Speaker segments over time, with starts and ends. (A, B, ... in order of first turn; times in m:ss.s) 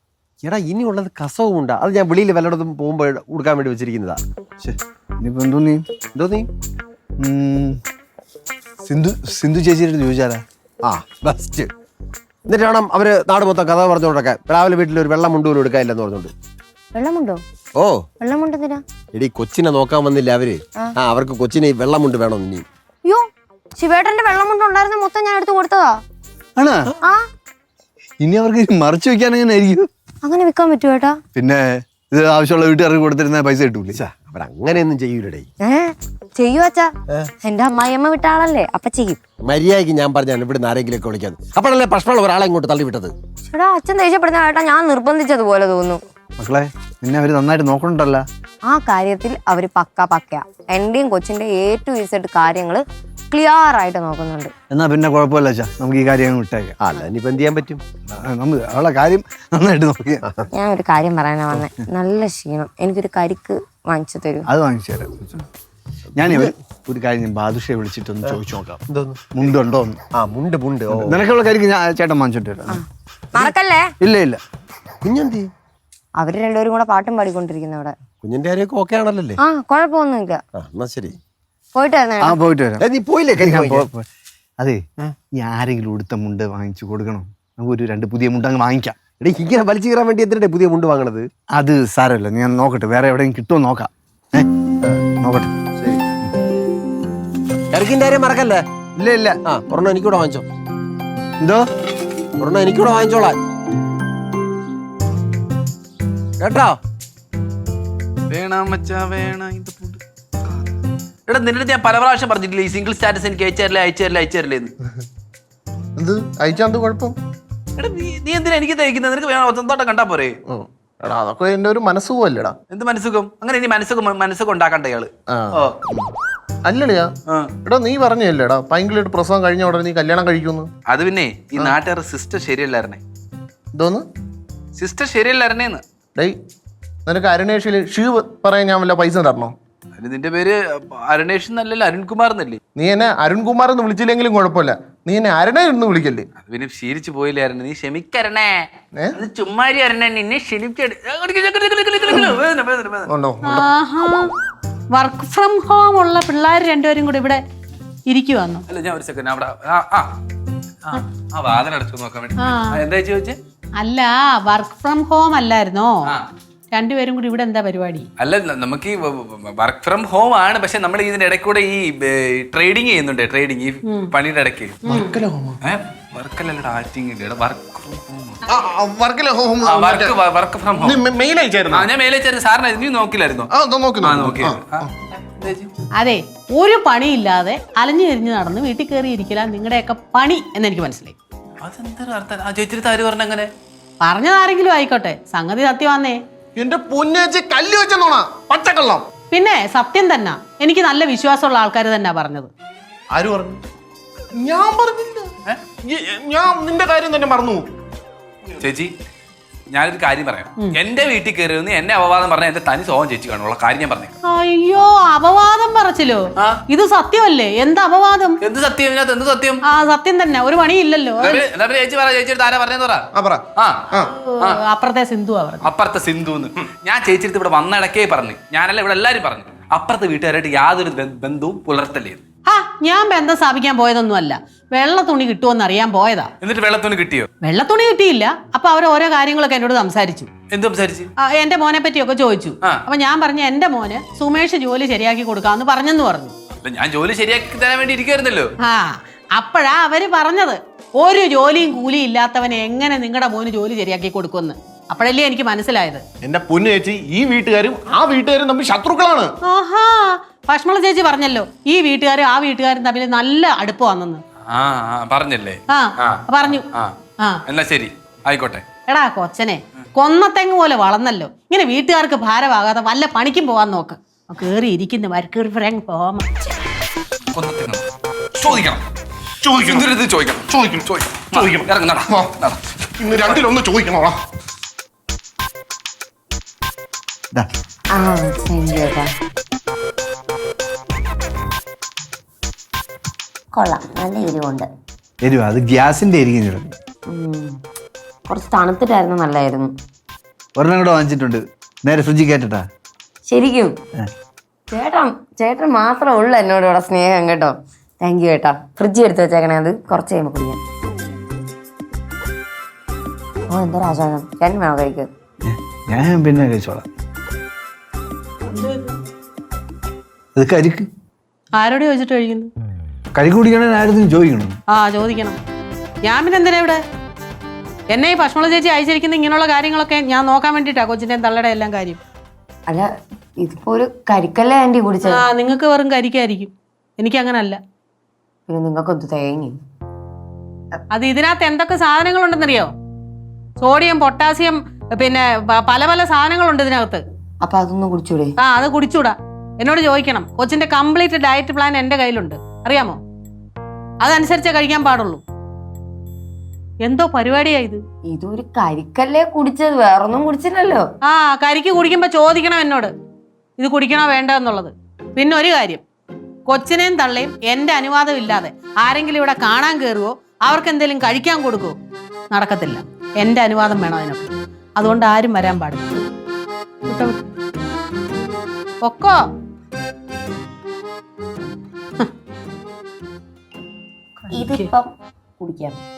0:00.4-0:04.2 A
0:04.6-0:05.8 B
0:06.1-0:06.5 A
0:07.2-0:07.8 B
0:08.8-0:10.4 B
0:10.8-0:11.7 A
0:12.4-0:16.3 A
0:16.9-0:17.4 C
0:17.8-0:18.0 A
0:18.2-0:18.8 C
0:19.1-0:22.6 A
0:23.8-0:26.0 C
0:26.6-0:26.9 B
0:28.2-0:29.9 B
0:30.2-0:31.2 C
0:31.3-0:34.0 B
0:33.9-0:35.4 A
0:35.6-0:36.9 C
0:37.4-0:39.2 C
0:39.4-0:43.1 A
0:43.5-0:46.0 C
0:46.4-0:48.2 B
0:48.7-0:54.5 C
0:54.7-0:56.8 B
0:56.8-0:57.8 A
0:58.1-1:00.3 B
1:00.5-1:04.4 C
1:04.5-1:05.4 B
1:06.2-1:08.8 B
1:06.2-1:06.5 A
1:08.9-1:09.2 A
1:09.3-1:10.0 B
1:10.2-1:11.2 A
1:10.9-1:12.8 B
1:13.3-1:13.9 C
1:14.0-1:14.4 B
1:15.0-1:15.5 A
1:16.2-1:17.9 C
1:18.2-1:19.4 A
1:19.4-1:20.4 C
1:20.6-1:21.2 A
1:21.7-1:22.4 C
1:22.2-1:22.8 B
1:22.8-1:23.9 A
1:23.4-1:24.1 B
1:25.4-1:29.0 B
1:29.2-1:31.3 A
1:31.5-1:34.5 B
1:35.1-1:35.5 B
1:37.7-1:38.6 A
1:39.0-1:39.4 B
1:39.4-1:40.4 A
1:41.4-1:41.6 B
1:42.4-1:43.4 A
1:46.4-1:46.8 A
1:48.3-1:50.0 D
1:51.3-1:54.7 D
1:56.0-1:57.1 E
1:57.8-2:00.4 D
2:00.5-2:02.5 E
2:02.7-2:05.7 D
2:05.3-2:06.1 E
2:06.6-2:07.1 E
2:07.6-2:10.7 E
2:10.9-2:13.0 D
2:13.7-2:14.0 E
2:14.8-2:15.8 D
2:17.0-2:19.5 E
2:20.0-2:22.6 D
2:22.8-2:26.3 E
2:26.4-2:33.1 D
2:33.1-2:33.7 E
2:33.4-2:34.3 F
2:34.9-2:37.4 F
2:38.1-2:38.6 F
2:38.7-2:40.1 D
2:40.8-2:43.4 D
2:42.4-2:42.8 F
2:43.8-2:46.1 F
2:46.7-2:48.1 F
2:48.2-2:54.8 D
2:54.8-2:55.1 F
2:54.8-2:55.6 E
2:55.6-2:58.4 D
2:58.5-3:00.2 E
2:59.6-3:01.0 D
3:00.7-3:01.9 E
3:01.7-3:03.5 D
3:03.5-3:04.9 E
3:04.0-3:05.7 D
3:06.0-3:11.1 F
3:11.6-3:13.5 D
3:14.0-3:16.2 F
3:16.6-3:19.0 E
3:19.3-3:22.5 F
3:23.1-3:23.6 E
3:24.4-3:25.3 E
3:25.8-3:27.7 E
3:28.6-3:28.9 D
3:29.7-3:34.1 D
3:34.2-3:38.4 F
3:38.4-3:39.6 D
3:39.6-3:41.4 F
3:41.2-3:43.0 D
3:43.1-3:44.1 E
3:43.6-3:43.8 D
3:44.2-3:45.7 F
3:45.6-3:52.2 D
3:52.4-3:56.3 F
3:56.4-3:57.3 D
3:57.4-4:00.3 F
4:00.5-4:01.1 D
4:01.2-4:06.3 F
4:06.6-4:08.5 D
4:08.6-4:16.0 F
4:16.2-4:19.3 E
4:19.4-4:24.2 F
4:24.5-4:26.9 D
4:25.7-4:26.6 F
4:27.5-4:28.6 D
4:28.9-4:36.3 F
4:37.3-4:37.8 D
4:38.4-4:38.8 D
4:39.4-4:39.9 E
4:39.5-4:42.6 D
4:40.5-4:42.3 E
4:43.0-4:44.2 E
4:47.9-4:49.1 C
4:53.5-4:54.7 C
4:55.2-4:56.7 B
4:57.1-4:57.5 C
4:58.3-4:59.7 C
5:00.6-5:02.6 B
5:03.3-5:03.7 C
5:04.7-5:10.6 C
5:13.5-5:15.1 C
5:15.4-5:16.8 B
5:18.5-5:18.8 F
5:20.3-5:20.9 B
5:21.6-5:22.5 F
5:23.2-5:24.6 B
5:24.7-5:25.4 F
5:26.0-5:26.8 F
5:27.9-5:32.0 F
5:33.4-5:35.2 C
5:35.0-5:37.6 F
5:38.5-5:39.6 C
5:40.9-5:42.7 F
5:43.6-5:47.0 F
5:47.4-5:48.3 C
5:48.4-5:53.0 F
5:54.0-5:55.2 F
5:56.8-5:57.8 F
5:58.0-6:00.8 C
6:01.0-6:02.9 F
6:03.6-6:05.8 F
6:06.5-6:11.8 F
6:12.3-6:16.0 F
6:16.8-6:17.2 F
6:18.8-6:19.2 F
6:24.3-6:25.8 C
6:24.3-6:24.7 F